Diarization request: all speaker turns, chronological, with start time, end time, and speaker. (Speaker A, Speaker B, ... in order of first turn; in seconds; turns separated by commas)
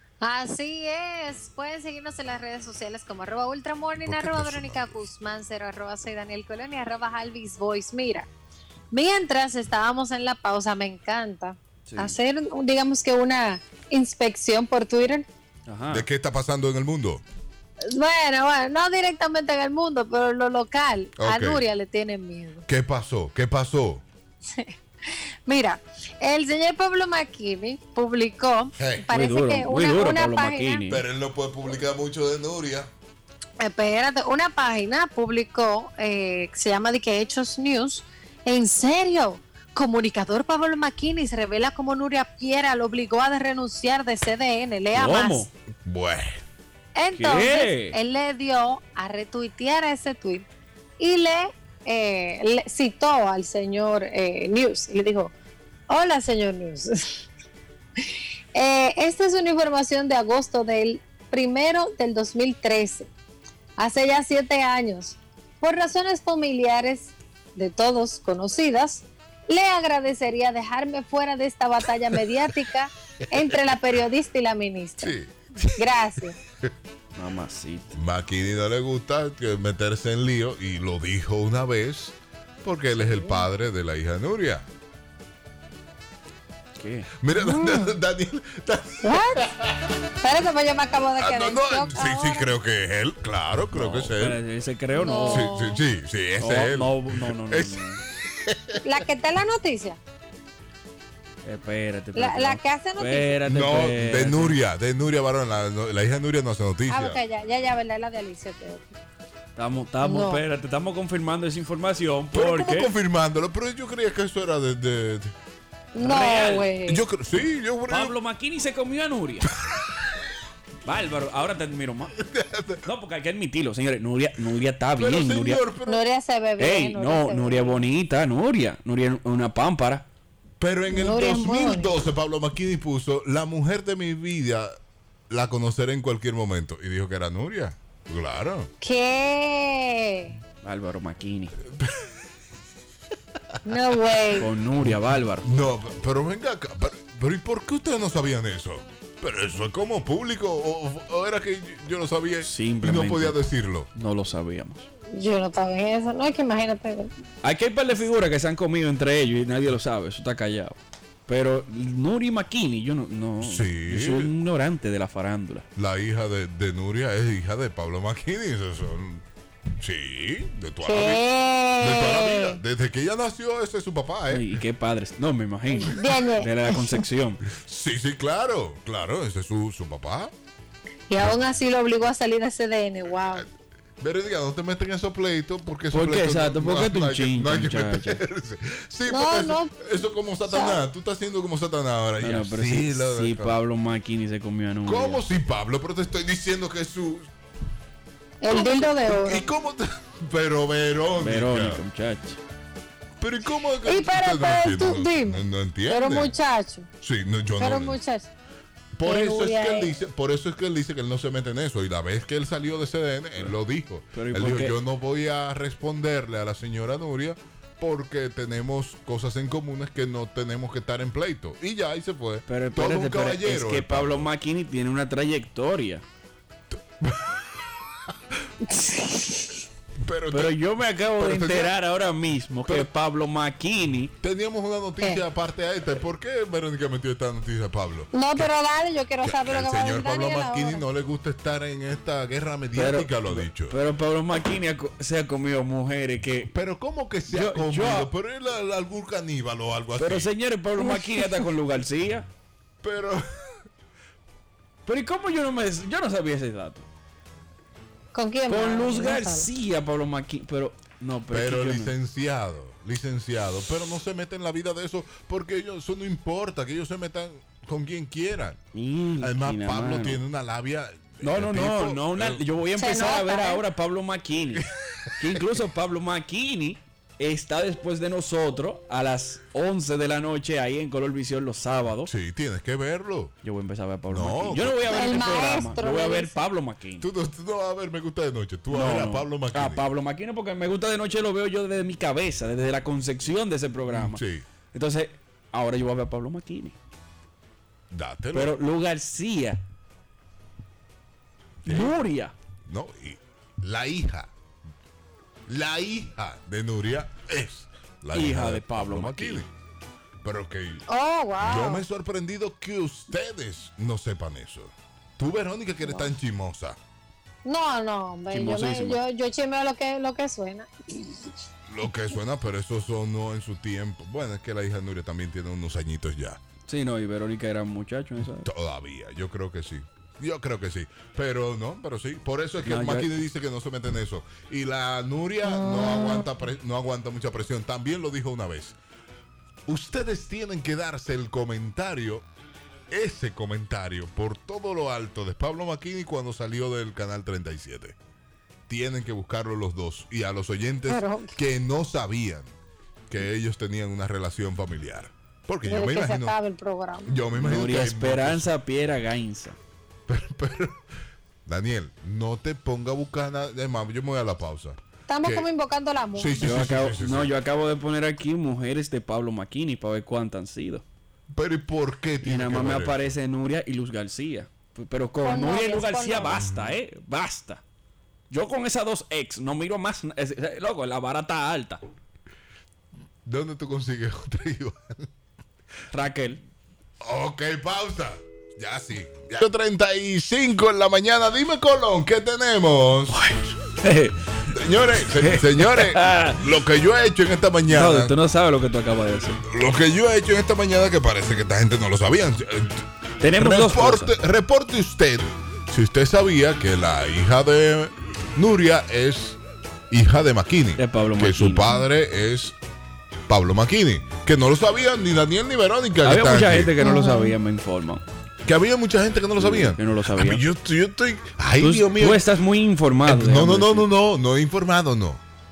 Speaker A: 0.2-8.3, Speaker B: 4.0-5.0, Speaker A: 8.9-15.2, Speaker C: 11.9-12.2, Speaker C: 15.7-16.0, Speaker B: 15.9-17.2, Speaker A: 17.9-22.6, Speaker B: 21.2-21.6, Speaker B: 22.6-24.0, Speaker A: 25.5-30.9, Speaker B: 28.8-29.1, Speaker C: 29.1-31.0, Speaker B: 30.9-32.9, Speaker A: 33.6-45.5, Speaker C: 44.9-45.5, Speaker B: 45.8-46.4, Speaker A: 47.0-50.5, Speaker C: 47.1-48.0, Speaker A: 51.0-55.3, Speaker A: 55.9-57.2, Speaker A: 58.5-63.1, Speaker A: 63.8-75.1, Speaker B: 73.5-73.8, Speaker B: 75.0-76.0, Speaker A: 75.8-76.3, Speaker C: 77.1-77.9, Speaker B: 77.9-84.7, Speaker A: 83.0-83.4, Speaker C: 86.8-87.1, Speaker B: 87.2-90.0, Speaker A: 87.3-88.0, Speaker A: 89.0-89.4, Speaker A: 90.2-92.5, Speaker B: 91.2-94.4, Speaker C: 93.7-95.5, Speaker A: 94.9-95.8, Speaker B: 95.2-98.8, Speaker C: 96.4-98.0, Speaker A: 98.8-100.0, Speaker C: 101.4-104.6, Speaker A: 102.1-103.4, Speaker B: 103.4-107.2, Speaker A: 106.9-108.9, Speaker C: 109.5-112.9, Speaker A: 110.0-110.4, Speaker B: 112.3-115.3, Speaker A: 115.9-117.0, Speaker C: 116.0-116.7, Speaker B: 116.8-118.2, Speaker C: 117.9-119.5, Speaker B: 119.7-120.2, Speaker C: 120.8-122.1, Speaker B: 122.2-122.8, Speaker C: 122.8-125.6, Speaker B: 125.0-126.0, Speaker A: 125.9-127.9, Speaker C: 126.6-130.0, Speaker B: 130.6-134.8, Speaker A: 130.9-131.9, Speaker B: 135.3-138.7, Speaker A: 138.8-140.3, Speaker C: 140.6-141.5, Speaker B: 141.7-142.1, Speaker A: 143.6-144.5, Speaker C: 144.3-145.4, Speaker B: 144.8-153.9, Speaker C: 152.4-153.4, Speaker C: 153.9-154.8, Speaker A: 155.1-157.1, Speaker C: 157.4-160.7, Speaker C: 161.3-165.7, Speaker B: 163.4-164.3, Speaker B: 165.8-169.2, Speaker B: 169.8-171.2, Speaker A: 170.8-172.6, Speaker B: 171.8-174.5, Speaker C: 174.3-177.4, Speaker A: 175.7-177.1, Speaker B: 177.5-180.3, Speaker A: 181.1-183.4, Speaker B: 183.3-193.6, Speaker C: 185.9-188.2, Speaker A: 189.1-189.8, Speaker A: 190.4-190.9, Speaker C: 192.2-195.2, Speaker B: 194.8-197.3, Speaker A: 198.4-199.5, Speaker B: 198.6-201.8, Speaker C: 201.2-202.4, Speaker B: 203.2-206.3, Speaker A: 203.8-206.9, Speaker B: 207.0-208.0, Speaker A: 207.6-208.3, Speaker B: 208.9-224.3, Speaker A: 209.0-209.9, Speaker C: 214.1-214.8, Speaker C: 222.5-226.0, Speaker B: 227.0-227.8, Speaker A: 228.7-229.5, Speaker B: 230.0-230.6, Speaker C: 230.3-234.1, Speaker B: 231.1-231.8, Speaker B: 232.7-232.9, Speaker B: 234.2-238.5, Speaker A: 238.1-240.8, Speaker B: 239.2-243.8, Speaker C: 242.8-246.5, Speaker B: 246.5-250.3, Speaker C: 247.3-248.1, Speaker C: 250.0-252.2, Speaker A: 250.8-251.4, Speaker B: 252.8-253.2, Speaker C: 254.8-256.8, Speaker A: 258.1-259.5, Speaker C: 258.5-261.9, Speaker B: 261.3-268.6, Speaker C: 268.8-270.2, Speaker B: 269.2-272.4, Speaker C: 271.2-274.6, Speaker A: 272.8-273.6, Speaker B: 274.5-275.3, Speaker C: 275.2-282.1, Speaker B: 282.0-283.3, Speaker C: 283.4-287.1, Speaker B: 284.1-285.0, Speaker A: 284.8-286.4, Speaker B: 287.0-289.9, Speaker C: 288.7-294.2, Speaker B: 293.9-294.4, Speaker C: 294.7-296.7, Speaker B: 297.9-298.6, Speaker C: 298.3-299.6, Speaker B: 301.6-302.0, Speaker C: 301.6-302.3, Speaker B: 302.6-304.3, Speaker B: 305.5-309.5, Speaker C: 308.1-309.4, Speaker B: 310.2-310.8, Speaker A: 310.9-311.8, Speaker B: 311.4-316.8, Speaker A: 315.8-316.1, Speaker A: 317.4-321.2, Speaker C: 318.3-319.0, Speaker B: 321.7-326.4, Speaker C: 326.7-328.5, Speaker B: 328.4-338.8, Speaker C: 332.6-333.1, Speaker A: 335.6-336.2, Speaker B: 339.7-342.2, Speaker B: 342.9-347.9, Speaker B: 348.7-352.5, Speaker A: 350.9-351.3, Speaker B: 353.1-356.4, Speaker A: 355.7-357.2, Speaker B: 357.0-358.5, Speaker C: 357.3-359.6, Speaker B: 360.1-360.8, Speaker B: 361.4-365.5, Speaker A: 365.1-366.5, Speaker B: 366.1-367.3, Speaker C: 366.4-370.8, Speaker B: 371.3-373.1, Speaker C: 372.2-377.6, Speaker A: 375.2-376.4, Speaker B: 376.3-376.8, Speaker C: 378.3-381.8, Speaker B: 383.2-385.1, Speaker C: 385.9-386.4, Speaker B: 387.0-393.2, Speaker C: 393.3-394.2, Speaker B: 394.4-398.1, Speaker C: 395.2-396.4, Speaker C: 397.7-399.4, Speaker B: 399.5-409.4, Speaker C: 403.2-404.1, Speaker B: 409.9-412.6, Speaker C: 410.8-411.7, Speaker B: 413.3-416.8, Speaker C: 416.0-418.0, Speaker A: 416.8-417.4, Speaker B: 418.4-422.3, Speaker C: 419.4-420.4, Speaker C: 421.6-423.9, Speaker B: 423.0-425.2